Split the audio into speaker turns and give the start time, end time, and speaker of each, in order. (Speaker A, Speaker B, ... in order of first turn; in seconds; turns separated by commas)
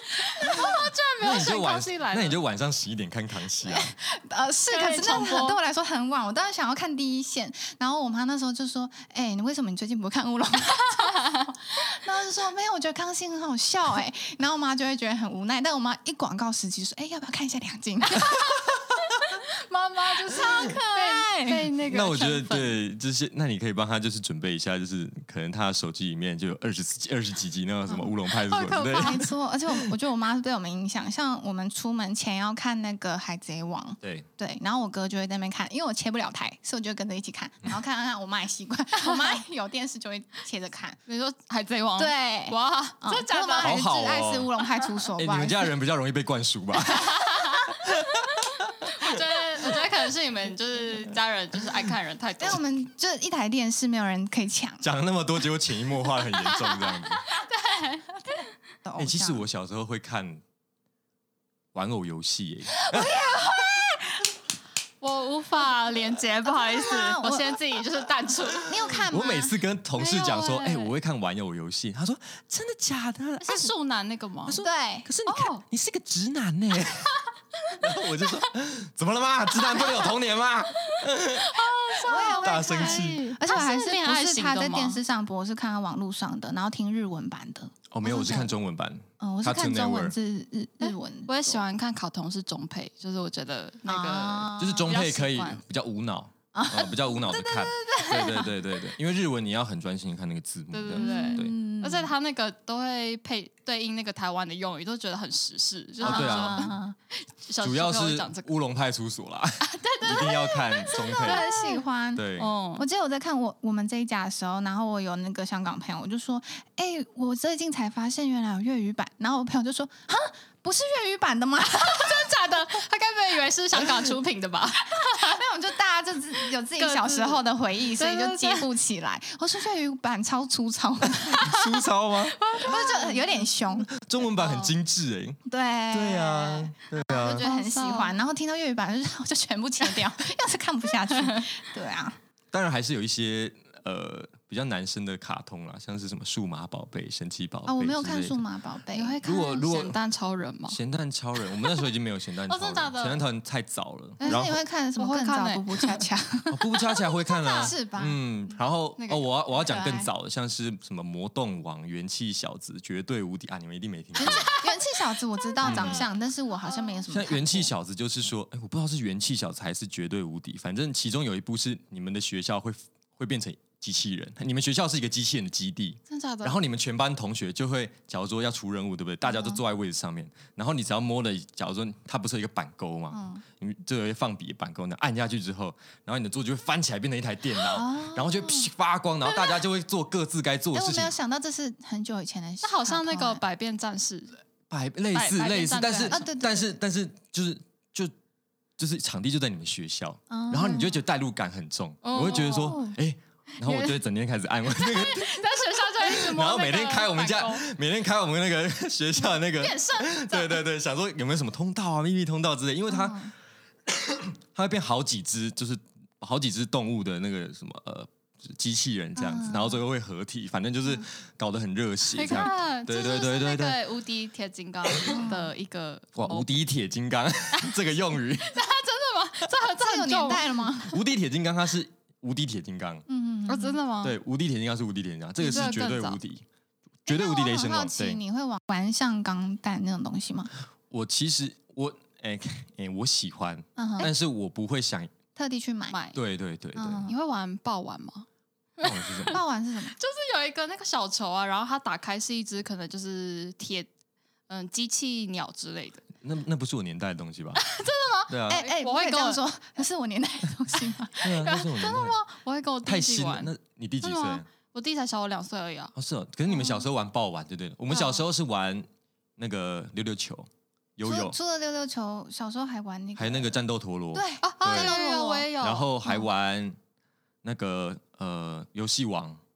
Speaker A: 0.2-2.4, Speaker B: 0.4-3.9, Speaker C: 3.6-18.5, Speaker A: 4.7-5.6, Speaker A: 11.0-11.5, Speaker A: 18.1-22.8, Speaker C: 20.1-21.6, Speaker B: 21.9-29.2, Speaker A: 28.2-29.3, Speaker C: 28.9-41.0, Speaker B: 34.0-34.3, Speaker A: 39.1-39.3, Speaker A: 41.1-43.8, Speaker C: 42.0-45.7, Speaker B: 43.6-44.5, Speaker B: 45.2-49.2, Speaker A: 46.9-52.6, Speaker C: 52.4-54.8, Speaker B: 54.8-57.2, Speaker A: 56.3-58.5, Speaker C: 58.8-59.4, Speaker B: 59.0-60.4, Speaker B: 61.7-63.2, Speaker C: 62.7-64.2, Speaker A: 65.0-68.9, Speaker C: 66.4-67.6, Speaker C: 68.6-69.5, Speaker B: 69.1-73.7, Speaker A: 70.0-70.9, Speaker A: 73.4-74.6, Speaker B: 74.5-77.2, Speaker C: 74.6-75.1, Speaker A: 75.2-75.6, Speaker B: 77.7-83.2, Speaker A: 79.7-80.1, Speaker A: 80.8-85.0, Speaker C: 82.0-88.5, Speaker B: 87.9-90.1, Speaker C: 89.2-91.6, Speaker A: 90.8-95.6, Speaker C: 93.8-94.9, Speaker B: 94.6-101.5, Speaker C: 96.5-98.5, Speaker A: 100.7-108.5, Speaker C: 100.9-102.1, Speaker C: 106.0-106.9, Speaker B: 106.0-106.7, Speaker B: 107.6-111.4, Speaker A: 109.6-111.8, Speaker C: 111.2-112.2, Speaker B: 112.1-112.5, Speaker A: 112.4-112.8, Speaker C: 112.8-122.3, Speaker A: 121.7-125.4, Speaker C: 124.9-131.5, Speaker A: 126.4-128.7, Speaker B: 131.2-132.4, Speaker A: 131.4-131.8, Speaker A: 132.3-133.5, Speaker C: 132.5-133.9, Speaker B: 133.9-135.4, Speaker A: 134.3-134.7, Speaker C: 135.4-142.2, Speaker B: 135.9-137.4, Speaker A: 137.2-138.2, Speaker A: 141.1-141.5, Speaker B: 142.5-148.4, Speaker C: 147.7-149.2, Speaker A: 148.9-150.8, Speaker B: 149.2-150.0, Speaker B: 150.7-154.6, Speaker A: 152.5-153.2, Speaker A: 154.2-156.1, Speaker C: 154.2-156.7, Speaker B: 156.5-164.5, Speaker A: 157.4-157.7, Speaker C: 157.4-158.2, Speaker A: 159.0-159.3, Speaker C: 159.6-160.1, Speaker C: 164.2-167.7, Speaker A: 164.2-164.9, Speaker A: 165.6-166.1, Speaker B: 165.6-166.1, Speaker A: 166.7-167.0, Speaker B: 167.1-191.1, Speaker A: 176.1-176.6, Speaker C: 179.3-179.6, Speaker C: 183.1-183.4, Speaker C: 187.7-188.7, Speaker C: 190.7-193.4, Speaker A: 192.6-194.4, Speaker B: 194.7-198.1, Speaker A: 195.1-196.2, Speaker C: 196.1-196.7, Speaker B: 198.8-213.3, Speaker C: 200.3-201.0, Speaker A: 202.0-202.8, Speaker C: 202.6-202.9, Speaker A: 203.6-203.9, Speaker A: 204.7-207.7, Speaker A: 209.3-210.6, Speaker C: 212.9-213.3, Speaker B: 213.9-223.8, Speaker C: 219.2-219.8, Speaker A: 222.1-226.5, Speaker B: 224.9-225.2, Speaker C: 225.1-225.5, Speaker B: 226.2-228.6, Speaker A: 228.4-230.7, Speaker C: 229.7-231.0, Speaker B: 230.9-233.0, Speaker C: 233.1-233.8, Speaker A: 233.5-234.2, Speaker B: 234.0-236.4, Speaker A: 235.4-236.2, Speaker B: 237.1-238.2, Speaker C: 237.1-240.5, Speaker B: 240.9-245.1, Speaker C: 243.8-244.1, Speaker C: 245.3-246.0, Speaker A: 245.9-246.2, Speaker B: 246.1-247.1, Speaker C: 246.8-247.1, Speaker A: 247.1-248.2, Speaker A: 248.8-249.4, Speaker B: 248.8-249.4, Speaker C: 249.3-249.9, Speaker A: 249.9-253.9, Speaker A: 254.5-256.1, Speaker B: 256.2-257.6, Speaker A: 257.6-259.4, Speaker B: 258.3-258.6, Speaker C: 258.5-261.3, Speaker B: 261.2-262.2, Speaker A: 261.2-265.9, Speaker B: 262.8-264.4, Speaker B: 265.9-271.4, Speaker C: 266.5-266.8, Speaker C: 267.9-268.2, Speaker C: 271.0-273.6, Speaker B: 273.1-275.0, Speaker C: 274.1-275.5, Speaker A: 274.4-275.9, Speaker B: 275.6-276.8, Speaker B: 277.4-279.4